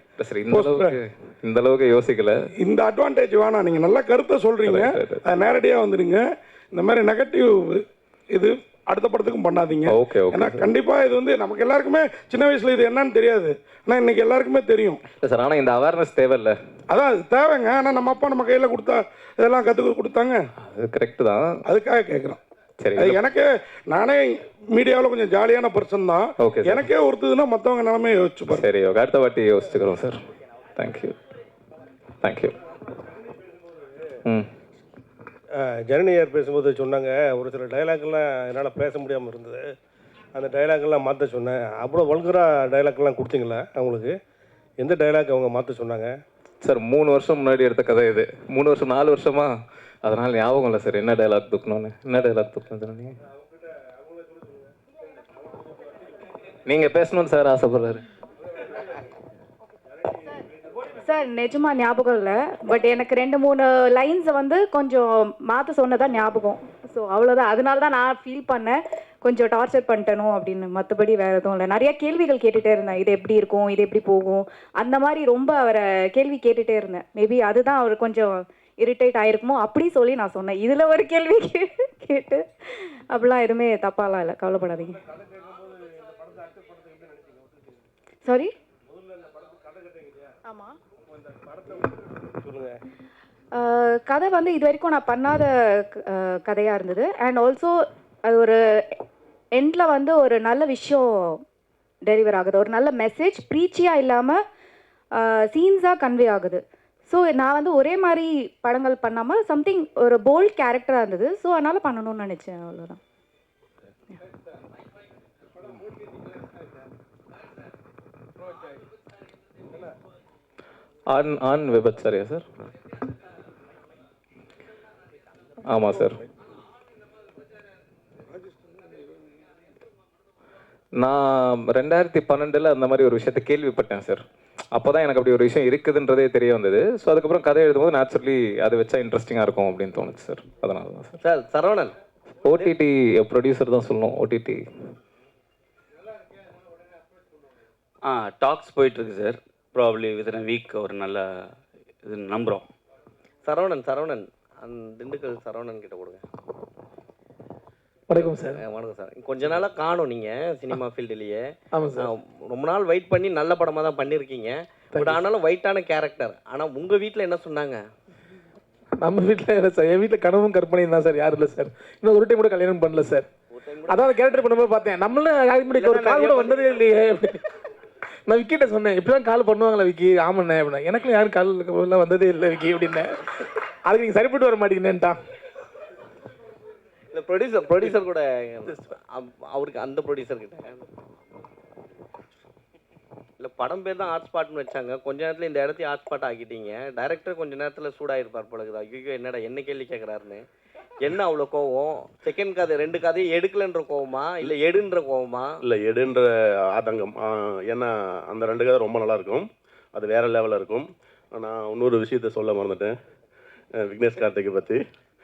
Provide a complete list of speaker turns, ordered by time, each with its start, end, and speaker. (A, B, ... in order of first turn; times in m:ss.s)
0:00.2-0:02.3 A
0:00.5-0:01.0 B
0:02.6-0:15.0 B
0:04.6-0:05.2 A
0:09.9-0:10.7 A
0:15.2-0:16.6 A
0:16.9-0:20.4 B
0:20.6-0:21.5 A
0:21.7-0:22.4 B
0:22.8-0:23.2 A
0:23.0-0:28.6 B
0:26.4-0:26.8 A
0:28.5-0:30.2 A
0:30.8-0:31.1 A
0:32.2-0:32.5 A
0:35.6-0:39.7 C
0:40.3-0:44.1 C
0:44.8-0:46.1 C
0:46.6-0:49.5 A
0:50.0-0:53.1 A
0:56.7-0:58.0 A
1:00.9-1:25.0 D
1:25.4-1:27.5 C
1:28.2-1:28.5 D
1:29.2-1:30.1 C
1:30.4-1:30.7 D
1:31.6-1:32.8 C
1:33.5-1:39.0 D
1:39.5-1:41.4 D
1:42.0-1:44.4 D
1:45.1-1:53.0 D
2:01.1-2:02.4 A
2:05.7-2:06.2 A
2:11.0-2:14.2 A
2:14.7-2:21.2 A
2:21.2-2:21.9 E
2:22.4-2:24.6 A
2:28.0-2:31.5 F
2:32.0-2:32.6 F
2:33.4-2:36.2 E
2:38.1-2:38.6 G
2:38.1-2:47.8 E
2:41.7-2:42.0 G
2:49.0-2:53.3 G
2:53.5-2:54.4 E
2:53.9-2:57.4 G
2:55.7-2:56.8 E
2:58.3-3:03.1 G
3:03.9-3:05.2 G
3:07.1-3:10.8 E
3:13.4-3:20.4 E
3:21.0-3:25.6 E
3:25.6-3:33.0 H
3:33.8-3:34.8 H